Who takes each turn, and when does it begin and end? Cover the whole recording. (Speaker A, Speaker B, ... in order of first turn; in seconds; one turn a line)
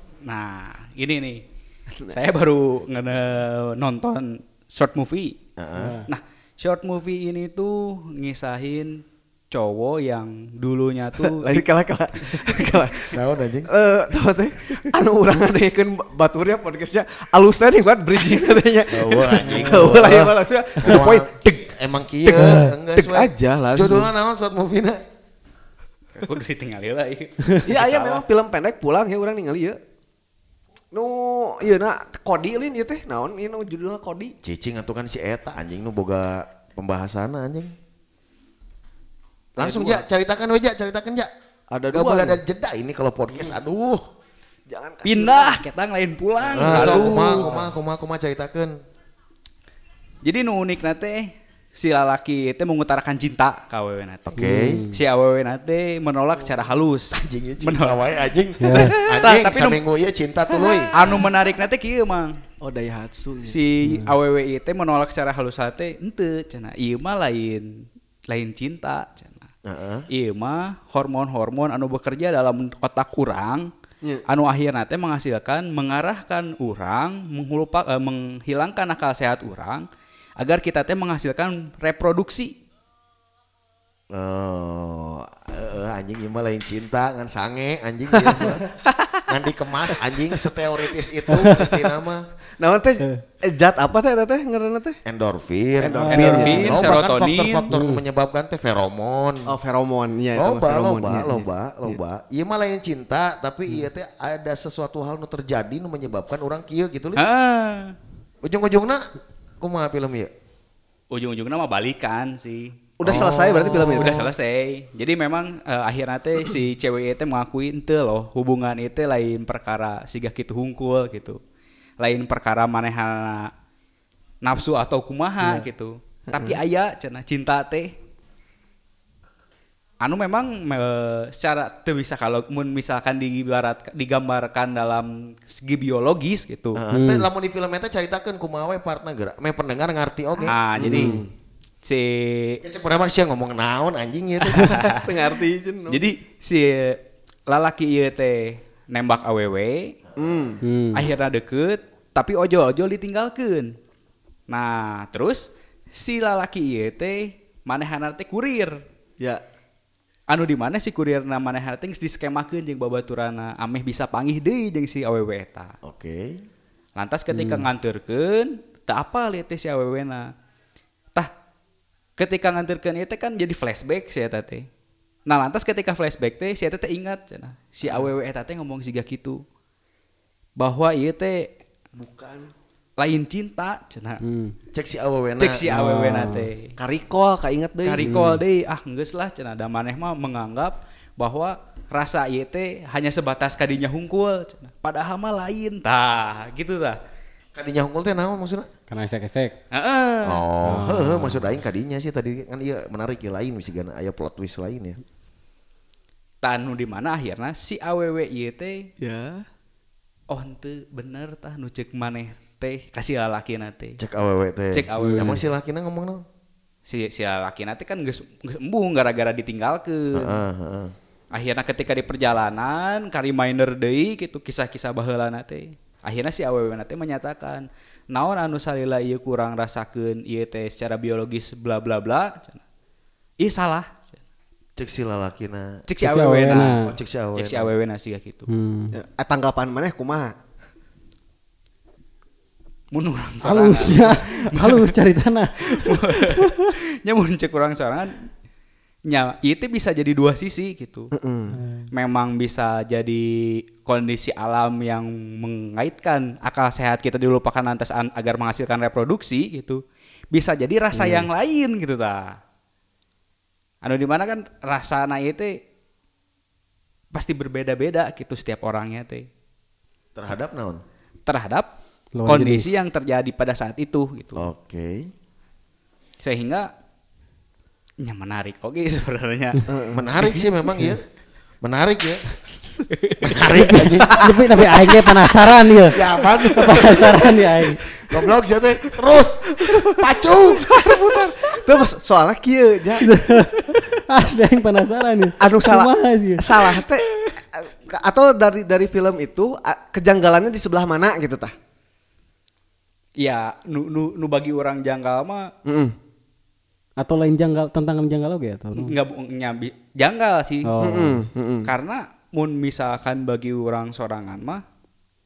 Speaker A: 0.2-1.4
Speaker A: 2.1-5.3
Speaker B: 5.6-6.0
Speaker C: 5.8-6.0
Speaker A: 6.1-9.0
Speaker A: 9.5-11.6
Speaker D: 11.2-21.6
Speaker A: 12.2-12.5
Speaker B: 13.1-13.7
Speaker B: 18.9-25.0
Speaker A: 19.4-19.9
Speaker D: 22.3-24.1
Speaker C: 22.4-22.7
Speaker A: 26.1-28.2
Speaker D: 27.6-29.8
Speaker D: 30.9-34.3
Speaker B: 34.4-37.7
Speaker B: 39.6-41.3
Speaker D: 39.6-40.0
Speaker D: 41.7-42.4
Speaker B: 41.9-44.0
Speaker D: 44.7-45.6
Speaker A: 45.0-47.5
Speaker D: 46.4-47.6
Speaker B: 46.5-48.7
Speaker A: 50.2-58.0
Speaker B: 54.3-54.8
Speaker C: 54.4-55.0
Speaker B: 57.1-60.9
Speaker C: 58.6-58.9
Speaker A: 58.6-59.8
Speaker D: 60.5-60.8
Speaker A: 60.9-62.4
Speaker D: 62.6-63.6
Speaker A: 63.4-69.5
Speaker C: 63.8-64.1
Speaker B: 69.6-70.0
Speaker A: 70.1-73.7
Speaker A: 74.3-79.8
Speaker A: 80.4-82.5
Speaker B: 84.1-88.7
Speaker D: 88.1-89.3
Speaker B: 89.3-92.2
Speaker D: 89.9-90.4
Speaker D: 92.6-95.0
Speaker B: 95.0-99.5
Speaker D: 95.8-96.6
Speaker C: 96.1-96.7
Speaker A: 96.1-97.7
Speaker C: 97.7-98.0
Speaker D: 99.4-102.0
Speaker B: 100.3-107.2
Speaker A: 107.2-107.9
Speaker B: 108.4-109.0
Speaker B: 109.6-110.3
Speaker A: 111.1-121.4
Speaker D: 113.0-114.3
Speaker B: 113.0-114.3
Speaker A: 122.0-123.5
Speaker A: 124.4-127.9
Speaker D: 126.3-126.6
Speaker A: 130.0-136.8
Speaker B: 136.8-141.0
Speaker C: 136.9-137.3
Speaker A: 140.4-141.2
Speaker C: 140.8-141.3
Speaker A: 141.8-142.6
Speaker B: 142.6-144.8
Speaker A: 144.5-145.0
Speaker D: 144.7-146.1
Speaker A: 145.9-149.9
Speaker D: 150.2-150.6
Speaker C: 150.6-151.1
Speaker A: 150.9-153.7
Speaker A: 154.5-158.7
Speaker A: 160.3-165.7
Speaker B: 165.8-166.4
Speaker A: 167.0-170.3
Speaker C: 167.3-167.7
Speaker A: 172.2-174.7
Speaker A: 175.3-179.4
Speaker D: 177.8-178.1
Speaker A: 180.6-181.4
Speaker D: 181.9-182.5
Speaker A: 183.0-184.2
Speaker C: 184.2-184.5
Speaker B: 184.7-185.6
Speaker A: 185.4-186.7
Speaker C: 185.7-186.5
Speaker D: 186.8-188.1
Speaker A: 187.8-197.0
Speaker C: 188.0-188.4
Speaker B: 197.5-198.7
Speaker C: 198.9-199.5
Speaker A: 199.7-200.4
Speaker B: 200.2-205.0
Speaker C: 200.6-201.5
Speaker A: 206.4-208.8
Speaker D: 209.0-209.4
Speaker A: 210.3-214.0
Speaker B: 214.0-216.2
Speaker A: 214.7-215.4
Speaker C: 215.0-215.4
Speaker A: 216.8-220.4
Speaker B: 220.1-220.9
Speaker A: 221.3-232.6
Speaker A: 233.4-234.1
Speaker B: 234.8-235.8
Speaker A: 235.9-238.5
Speaker C: 236.0-236.9
Speaker B: 236.9-237.7
Speaker C: 238.5-238.9
Speaker D: 238.9-240.3
Speaker A: 242.9-245.0
Speaker C: 243.4-246.7
Speaker A: 245.6-248.3
Speaker A: 249.1-251.1
Speaker D: 251.1-251.6
Speaker C: 251.6-251.8
Speaker A: 251.9-259.8
Speaker A: 260.3-262.4
Speaker A: 263.8-265.5
Speaker A: 267.1-269.2
Speaker B: 270.1-270.8
Speaker A: 271.2-271.7
Speaker C: 272.1-272.7
Speaker A: 272.2-274.5
Speaker B: 274.4-275.1
Speaker A: 276.2-276.7
Speaker A: 278.0-279.6
Speaker D: 279.7-280.1
Speaker B: 279.9-281.0
Speaker B: 281.6-282.2
Speaker A: 282.9-283.6
Speaker B: 283.2-284.4
Speaker C: 283.5-288.2
Speaker B: 285.9-287.3
Speaker B: 288.0-290.7
Speaker D: 289.6-290.0
Speaker D: 290.6-293.1
Speaker C: 293.0-296.5
Speaker D: 295.4-301.5
Speaker A: 303.2-305.5
Speaker D: 305.6-305.9
Speaker C: 307.0-309.0
Speaker A: 308.7-310.7
Speaker C: 310.6-311.2
Speaker D: 310.8-311.7
Speaker A: 311.6-314.6